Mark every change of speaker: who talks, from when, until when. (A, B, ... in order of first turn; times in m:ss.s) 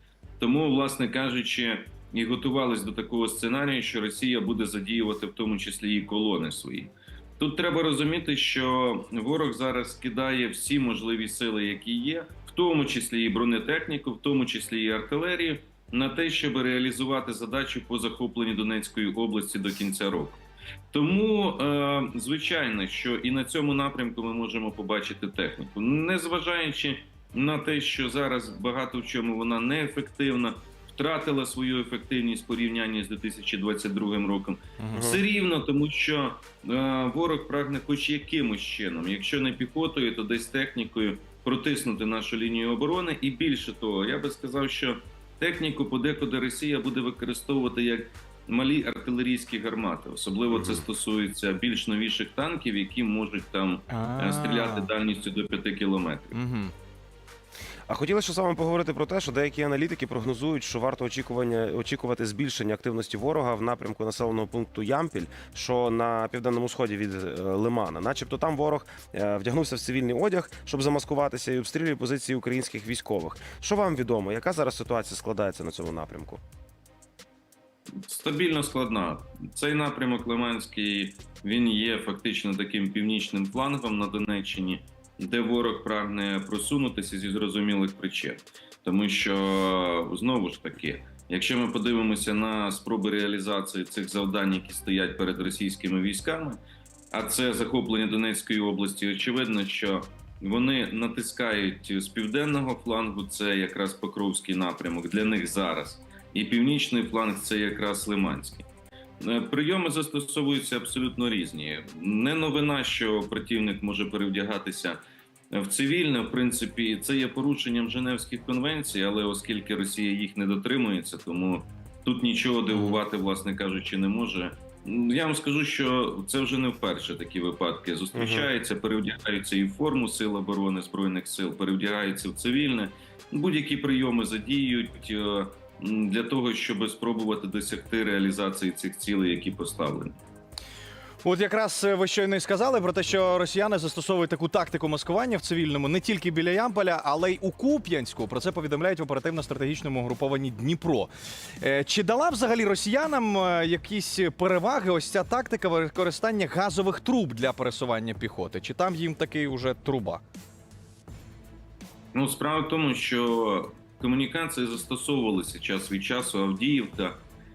0:00.4-0:56.4 A
0:34.8-0:35.1 B
0:34.9-0:35.2 C
0:50.5-0:50.8 C
0:53.9-0:54.9 B
0:56.3-0:56.7 B
0:57.9-1:16.4 C
1:18.0-1:36.6 A
1:37.1-1:48.7 A
1:49.2-1:55.0 A
1:55.5-2:20.2 A
2:02.7-2:03.0 C
2:08.1-2:08.5 C
2:21.2-2:40.2 B
2:42.1-2:47.2 A